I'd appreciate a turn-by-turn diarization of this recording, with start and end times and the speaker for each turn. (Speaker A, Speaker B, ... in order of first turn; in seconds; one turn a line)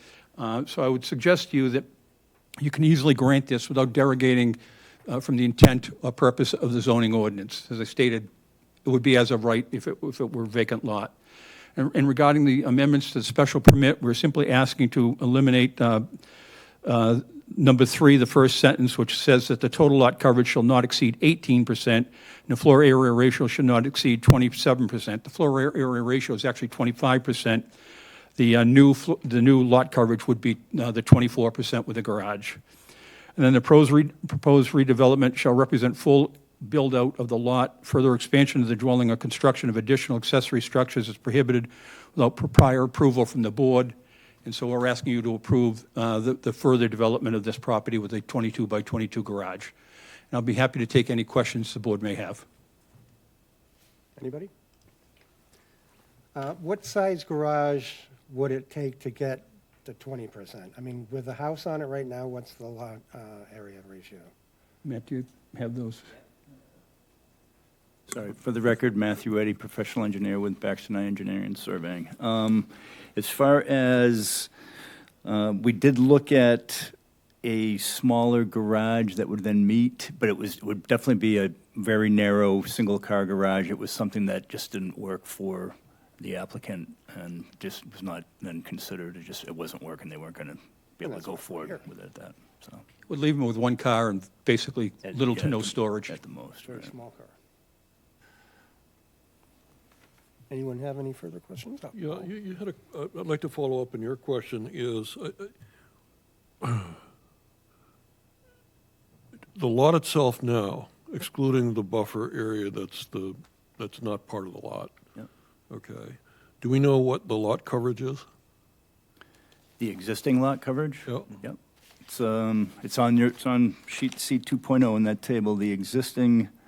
Speaker A: 0.4-1.9
Speaker A: 2.6-8.3
Speaker A: 8.8-11.1
Speaker A: 11.8-16.1
Speaker A: 16.8-27.7
Speaker A: 28.4-32.6
Speaker A: 33.4-49.7
Speaker A: 50.3-52.5
Speaker B: 54.2-54.5
Speaker B: 56.3-64.3
Speaker A: 64.8-66.1
Speaker C: 68.1-74.5
Speaker C: 75.2-92.8
Speaker A: 93.1-96.2
Speaker C: 95.1-96.9
Speaker B: 96.7-97.3
Speaker B: 100.5-102.0
Speaker D: 101.9-105.5
Speaker D: 106.6-107.0
Speaker D: 109.5-115.0
Speaker D: 115.7-118.3
Speaker C: 119.8-126.5
Speaker D: 121.0-121.4